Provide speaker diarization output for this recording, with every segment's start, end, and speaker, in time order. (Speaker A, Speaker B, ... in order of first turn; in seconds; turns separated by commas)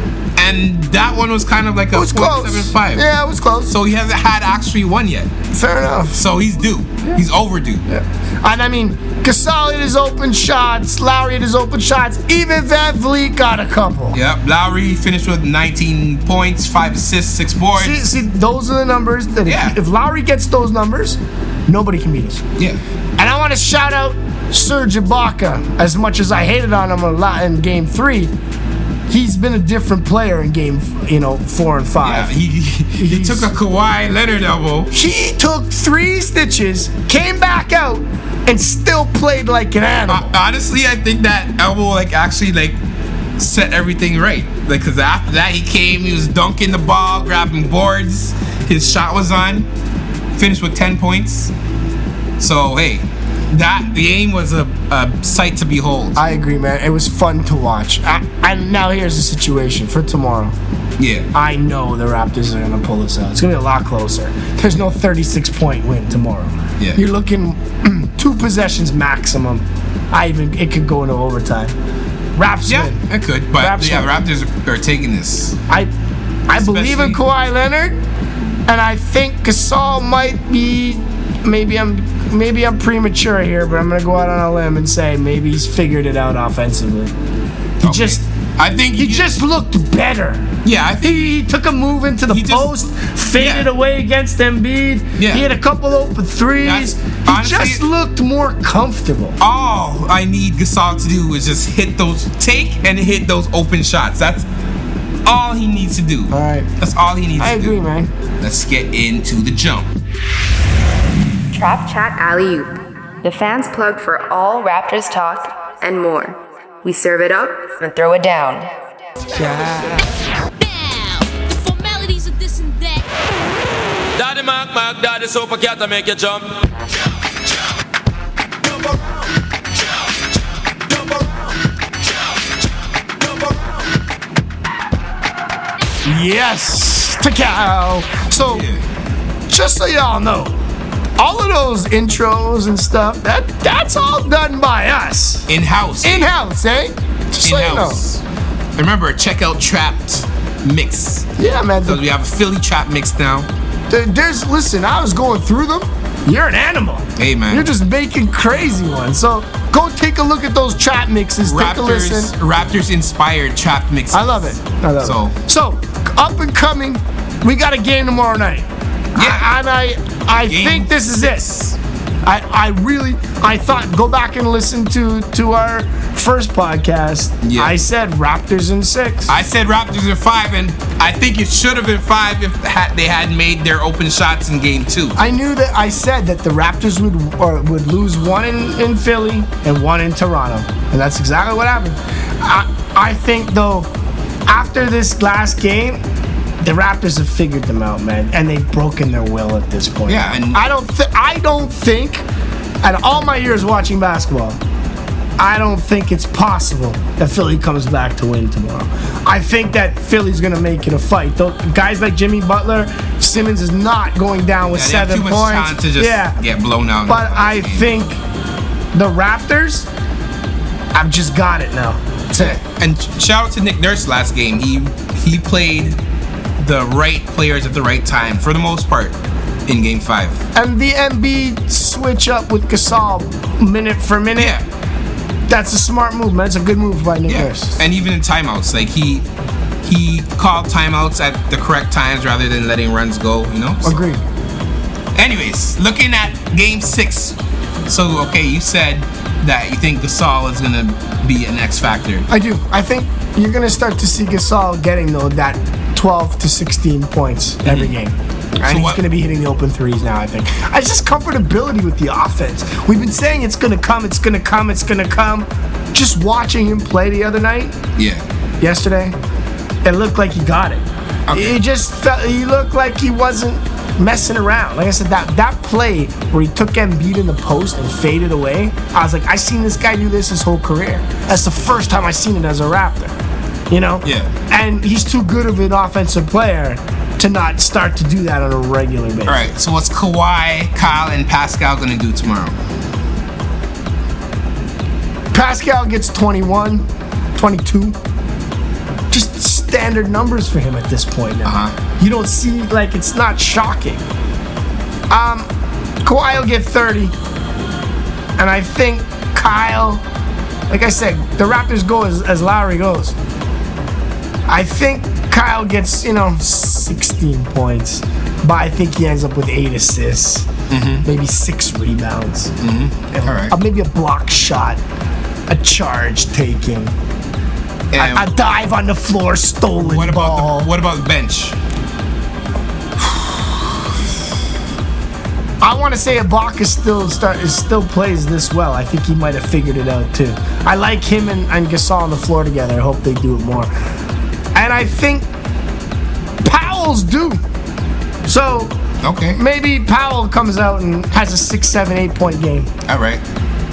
Speaker A: 0.3-3.0, Speaker B: 1.9-3.7, Speaker A: 3.7-5.3, Speaker B: 5.5-6.2, Speaker A: 6.1-7.8, Speaker B: 7.9-14.2, Speaker A: 14.1-18.1, Speaker B: 17.7-22.4, Speaker A: 19.4-19.8, Speaker B: 23.2-28.3, Speaker B: 29.1-32.3, Speaker A: 32.0-34.9, Speaker B: 33.0-33.5, Speaker B: 34.9-40.3, Speaker A: 40.1-42.8, Speaker A: 43.4-49.7, Speaker A: 50.4-51.5, Speaker A: 52.4-56.2, Speaker B: 56.1-60.5, Speaker A: 61.0-61.3, Speaker B: 61.3-71.7, Speaker B: 72.3-73.0, Speaker A: 72.7-75.6, Speaker B: 73.5-74.2, Speaker B: 76.5-78.0, Speaker A: 76.5-77.2, Speaker B: 78.7-87.1, Speaker B: 87.8-88.2, Speaker A: 87.8-89.4, Speaker B: 89.0-90.5, Speaker A: 90.6-91.4, Speaker B: 91.0-99.4, Speaker A: 92.3-92.7, Speaker A: 93.3-93.7, Speaker A: 95.2-95.5, Speaker A: 96.6-97.8, Speaker A: 99.4-104.5, Speaker A: 105.2-107.8, Speaker B: 106.3-106.7, Speaker B: 107.4-108.1, Speaker A: 108.4-109.9, Speaker C: 111.5-118.7, Speaker D: 120.6-123.0, Speaker E: 124.2-126.5, Speaker B: 136.0-138.6, Speaker A: 138.4-138.8, Speaker B: 139.5-140.6, Speaker B: 141.2-145.5, Speaker A: 145.5-146.3, Speaker B: 146.0-148.0, Speaker A: 147.4-148.2, Speaker A: 148.8-151.3, Speaker B: 151.4-152.0, Speaker A: 151.8-153.5, Speaker B: 153.9-162.3, Speaker A: 157.2-157.7, Speaker A: 161.4-165.3, Speaker B: 164.1-171.5, Speaker A: 169.2-169.5, Speaker A: 170.4-171.8, Speaker B: 172.2-179.3, Speaker A: 177.4-177.8, Speaker A: 179.3-185.2, Speaker B: 185.2-193.9, Speaker B: 194.5-196.0, Speaker B: 196.6-202.2, Speaker A: 200.1-200.7, Speaker B: 202.8-204.6, Speaker B: 205.4-216.4, Speaker A: 214.7-218.0, Speaker B: 217.1-218.2, Speaker B: 218.9-219.9, Speaker B: 220.9-222.6, Speaker A: 222.3-226.0, Speaker A: 226.6-229.2, Speaker A: 229.7-230.4, Speaker B: 230.5-234.6, Speaker A: 234.3-234.6, Speaker B: 235.5-237.8, Speaker A: 237.3-239.2, Speaker A: 239.8-244.1, Speaker B: 243.8-244.2, Speaker A: 245.1-252.3, Speaker B: 252.3-267.8, Speaker A: 257.6-257.9, Speaker A: 258.6-259.0, Speaker A: 267.9-268.2, Speaker B: 268.6-269.1, Speaker B: 269.8-283.1, Speaker A: 271.3-271.6, Speaker B: 283.7-289.5, Speaker A: 284.0-284.3, Speaker A: 289.2-292.6, Speaker B: 295.3-296.8, Speaker B: 297.4-297.9, Speaker B: 299.1-304.0, Speaker A: 301.4-301.8, Speaker B: 305.1-305.5, Speaker B: 306.0-307.1, Speaker B: 308.4-310.0, Speaker B: 310.7-313.1, Speaker B: 314.5-320.5, Speaker A: 320.7-321.1, Speaker B: 321.0-322.5, Speaker A: 322.6-323.5, Speaker B: 323.1-324.8, Speaker B: 325.5-326.9, Speaker A: 327.9-328.3, Speaker B: 327.9-330.7, Speaker A: 329.8-331.6, Speaker A: 333.0-333.6, Speaker B: 335.6-343.7, Speaker B: 344.5-345.2, Speaker B: 346.4-347.4, Speaker B: 348.2-348.7, Speaker A: 349.0-349.4, Speaker B: 349.3-352.7, Speaker A: 352.9-353.2